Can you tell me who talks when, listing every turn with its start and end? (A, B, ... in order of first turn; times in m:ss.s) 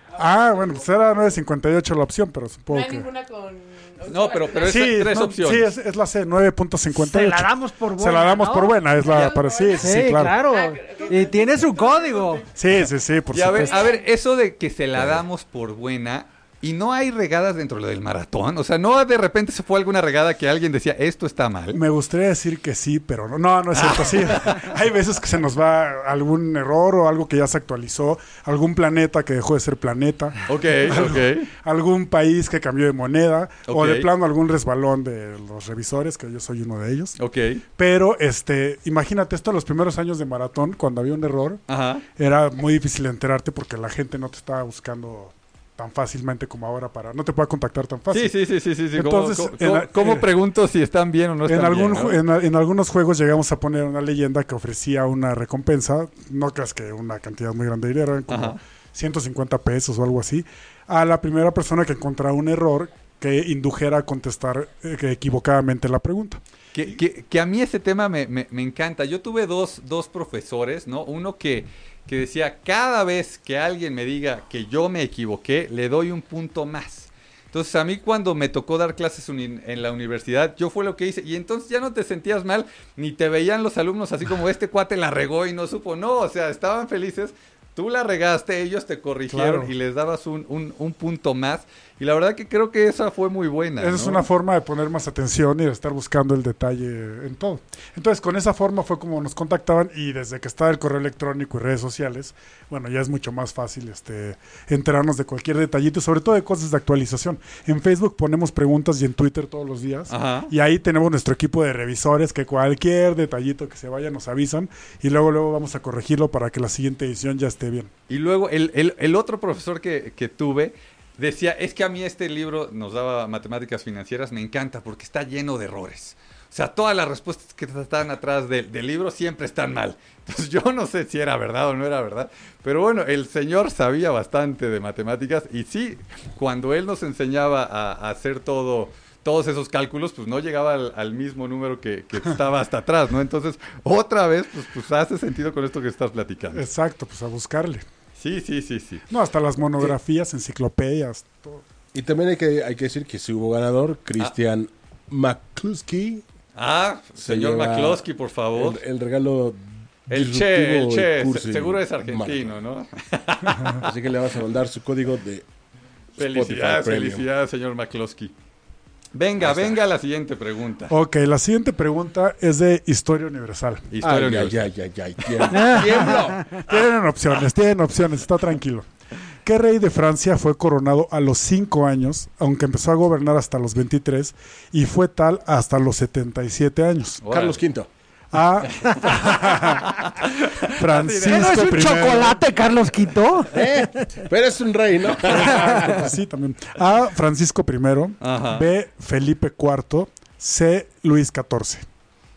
0:00.1-0:03.1 A
0:02.7-0:04.8 B
0:04.1-0:05.7 C
0:04.6-0:10.4 A
0:07.0-0:08.8 D
0:09.2-0:09.9 B
0:09.8-0:12.5 D
0:10.6-0:11.2 B
0:12.5-0:13.8 A
0:13.3-0:21.8 C
0:21.7-0:37.2 A
0:23.7-0:24.6 C
0:30.5-0:31.5 C
0:33.7-0:34.1 C
0:37.2-0:37.6 C
0:37.8-0:41.6 A
0:41.7-0:42.0 C
0:42.2-0:48.3 A
0:48.1-0:52.2 C
0:48.9-0:50.3 A
0:51.4-1:06.4 A
0:58.3-0:58.6 C
1:06.7-1:34.2 C
1:29.3-1:29.7 A
1:33.8-1:57.9 A
1:50.1-1:50.5 C
1:58.1-2:26.6 C
2:26.5-2:27.8 A
2:28.2-2:29.0 C
2:29.1-2:31.6 A
2:31.9-2:36.2 E
2:36.5-2:38.8 C
2:37.2-2:42.5 E
2:40.1-2:43.9 C
2:43.8-2:45.4 E
2:46.2-2:47.2 E
2:46.2-2:48.3 C
2:49.1-2:50.9 C
2:50.9-2:53.9 A
2:53.9-2:55.8 C
2:54.0-2:56.4 E
2:55.5-2:56.3 D
2:56.7-2:58.9 A
2:59.4-3:07.2 A
3:07.2-3:07.6 C
3:07.3-3:07.9 E
3:08.3-3:09.9 A
3:10.0-3:11.4 C
3:10.7-3:12.4 A
3:11.1-3:14.2 D
3:13.5-3:16.1 E
3:15.3-3:21.8 A
3:18.2-3:18.7 C